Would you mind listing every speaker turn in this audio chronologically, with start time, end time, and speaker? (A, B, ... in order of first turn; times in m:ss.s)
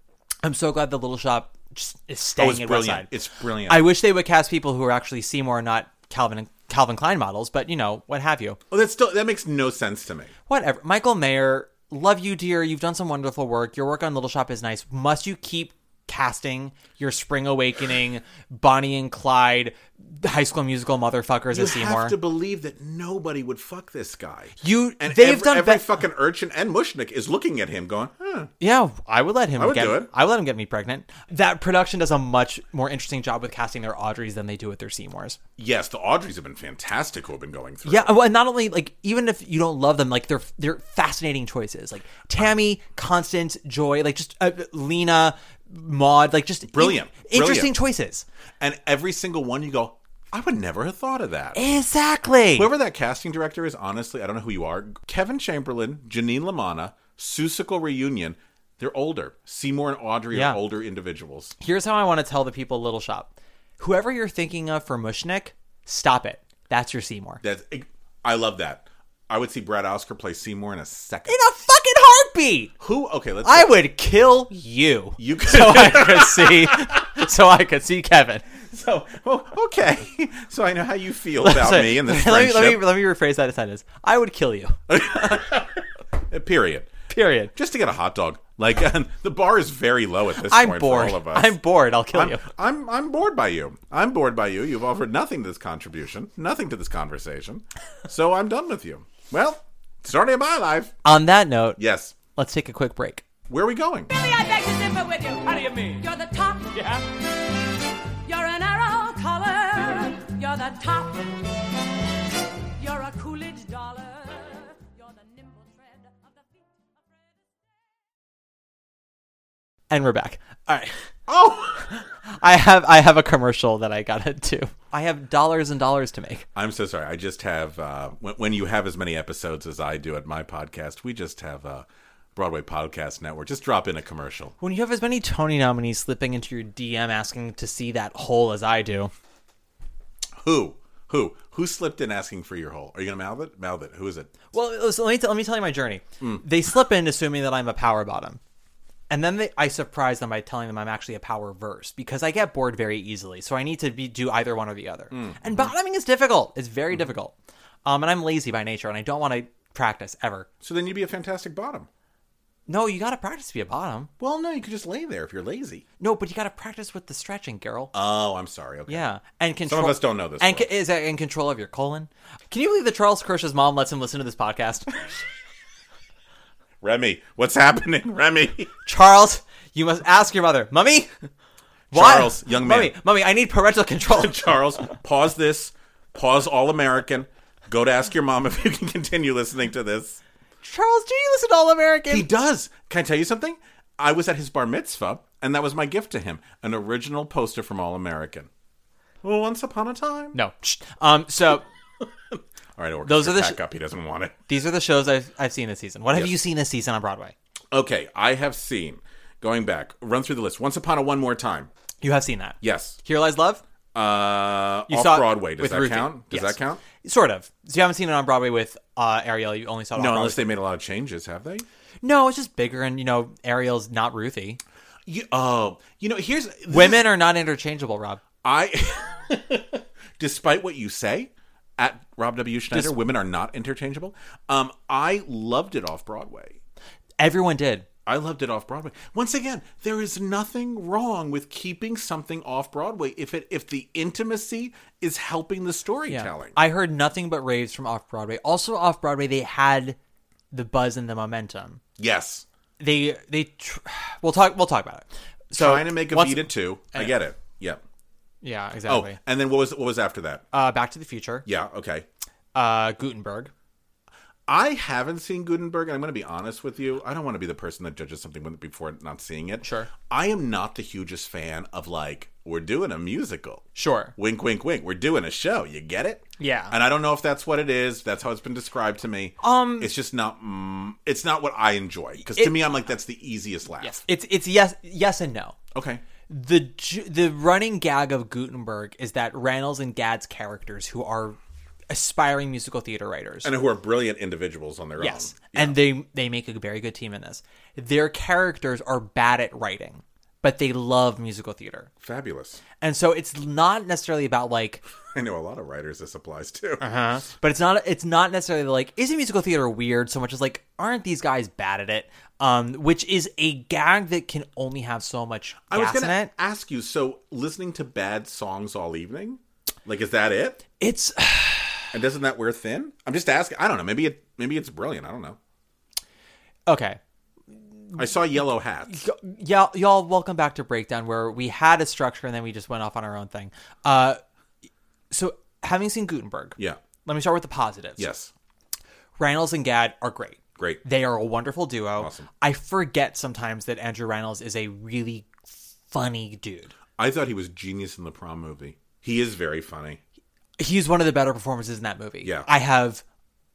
0:00.4-0:03.1 A
0:02.4-0:03.9 B
0:03.7-0:08.6 A
0:08.7-0:10.3 B
0:10.5-0:22.2 A
0:21.5-0:28.5 B
0:24.6-0:26.0 A
0:28.6-0:35.4 A
0:29.6-0:30.1 B
0:35.6-0:38.2 B
0:37.8-0:48.2 A
0:46.6-0:47.7 B
0:48.6-0:51.6 B
0:51.6-0:52.7 A
0:52.6-1:01.5 B
1:00.3-1:00.6 A
1:01.6-1:07.4 A
1:07.4-1:11.4 B
1:11.3-1:12.7 A
1:12.8-1:13.9 B
1:13.4-1:18.5 A
1:15.2-1:17.0 B
1:18.6-1:23.0 B
1:21.4-1:25.4 A
1:24.9-1:26.9 B
1:27.1-1:27.5 A
1:27.6-1:31.6 B
1:30.4-1:32.5 A
1:32.1-1:41.0 B
1:41.0-1:41.8 A
1:41.8-1:42.2 B
1:42.4-1:43.2 A
1:43.5-1:44.1 B
1:44.1-1:47.3 C
1:48.3-1:51.6 C
1:52.8-1:56.4 C
1:59.9-2:01.1 A
2:01.3-2:01.9 B
2:01.9-2:06.5 A
2:06.6-2:14.6 B
2:14.6-2:19.1 A
2:20.4-2:24.4 B
2:24.5-2:28.4 A
2:29.1-2:37.3 A
2:35.1-2:35.7 B
2:37.8-2:40.5 A
2:40.6-2:41.9 B
2:42.7-2:44.1 A
2:44.2-2:45.8 B
2:46.0-2:47.9 A
2:47.9-2:49.1 B
2:48.9-2:55.0 A
2:49.6-2:50.7 B
2:56.8-2:58.7 B
2:58.9-3:01.1 A
3:01.9-3:03.0 B
3:01.9-3:04.6 A
3:04.1-3:10.2 B
3:10.6-3:12.3 A
3:12.1-3:18.5 B
3:19.2-3:20.4 B
3:20.3-3:21.6 A
3:22.8-3:24.4 B
3:23.0-3:23.6 A
3:24.5-3:27.3 A
3:27.7-3:31.7 B
3:32.0-3:33.6 A
3:32.6-3:33.0 B
3:33.9-3:36.8 B
3:34.9-3:40.4 A
3:39.9-3:41.7 B
3:42.0-3:44.6 A
3:45.1-3:47.1 B
3:46.7-3:48.2 A
3:48.4-3:56.6 B
3:57.2-3:57.9 A
3:58.1-4:06.6 B
4:06.1-4:10.0 A
4:10.5-4:11.8 A
4:12.0-4:12.4 B
4:12.8-4:17.2 A
4:15.5-4:17.8 B
4:18.4-4:19.2 A
4:18.8-4:20.4 B
4:20.5-4:21.5 A
4:21.5-4:22.1 B
4:22.6-4:23.5 A
4:24.5-4:44.0 B
4:29.6-4:29.9 A
4:33.8-4:34.1 A
4:36.4-4:36.8 A
4:39.4-4:39.9 A
4:42.3-4:42.6 A
4:43.8-4:45.6 A
4:45.7-4:46.0 B
4:46.3-4:51.4 A
4:51.9-4:53.5 A
4:53.4-4:55.8 B
4:55.0-5:01.9 A
5:02.0-5:02.6 B
5:02.8-5:04.8 A
5:05.1-5:06.8 B
5:06.8-5:16.3 A
5:15.7-5:20.6 B
5:20.8-5:21.9 A
5:21.9-5:25.4 B
5:26.7-5:27.0 A
5:27.5-5:28.1 A
5:28.0-5:29.0 B
5:28.9-5:34.2 A
5:35.1-5:38.1 A
5:38.0-5:38.3 B
5:39.2-5:46.7 A
5:40.6-5:40.8 B
5:42.0-5:42.3 B
5:47.0-5:50.0 B
5:50.6-5:53.0 A
5:52.2-5:52.5 B